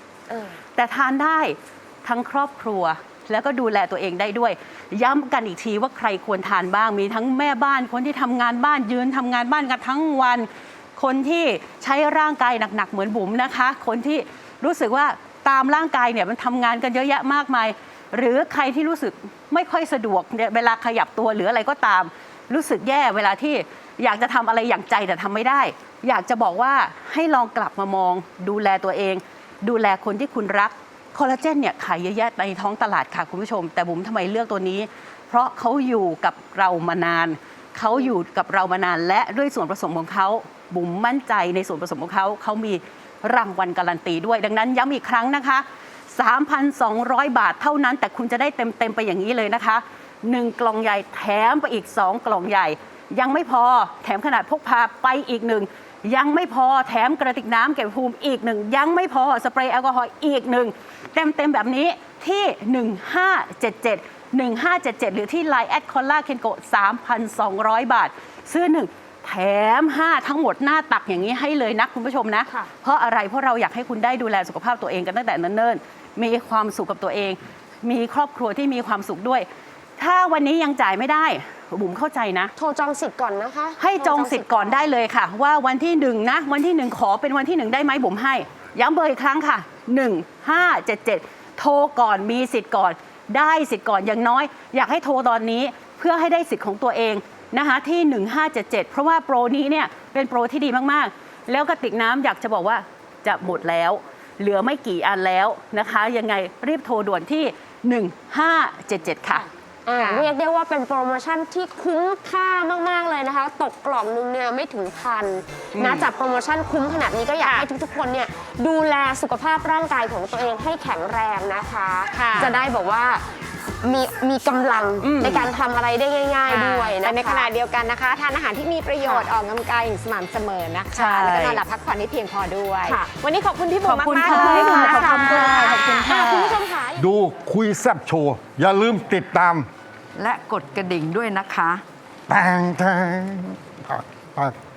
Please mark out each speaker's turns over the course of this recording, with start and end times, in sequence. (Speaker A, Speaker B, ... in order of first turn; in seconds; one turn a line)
Speaker A: 0.3-0.6
Speaker B: 0.7-79.5
Speaker B: 80.0-82.5
Speaker A: 82.5-84.9
Speaker B: 83.8-109.5
Speaker A: 109.3-123.2
Speaker B: 115.7-116.1
Speaker C: 122.1-122.5
Speaker A: 123.8-127.5
Speaker B: 125.0-125.5
Speaker C: 126.5-127.0
Speaker D: 127.0-135.9
Speaker A: 129.0-129.3
Speaker B: 130.9-131.6
Speaker A: 132.8-133.1
Speaker C: 133.1-135.6
Speaker B: 133.9-136.5
Speaker A: 134.2-137.1
Speaker E: 137.0-139.7
Speaker C: 140.2-141.8
Speaker E: 142.3-144.6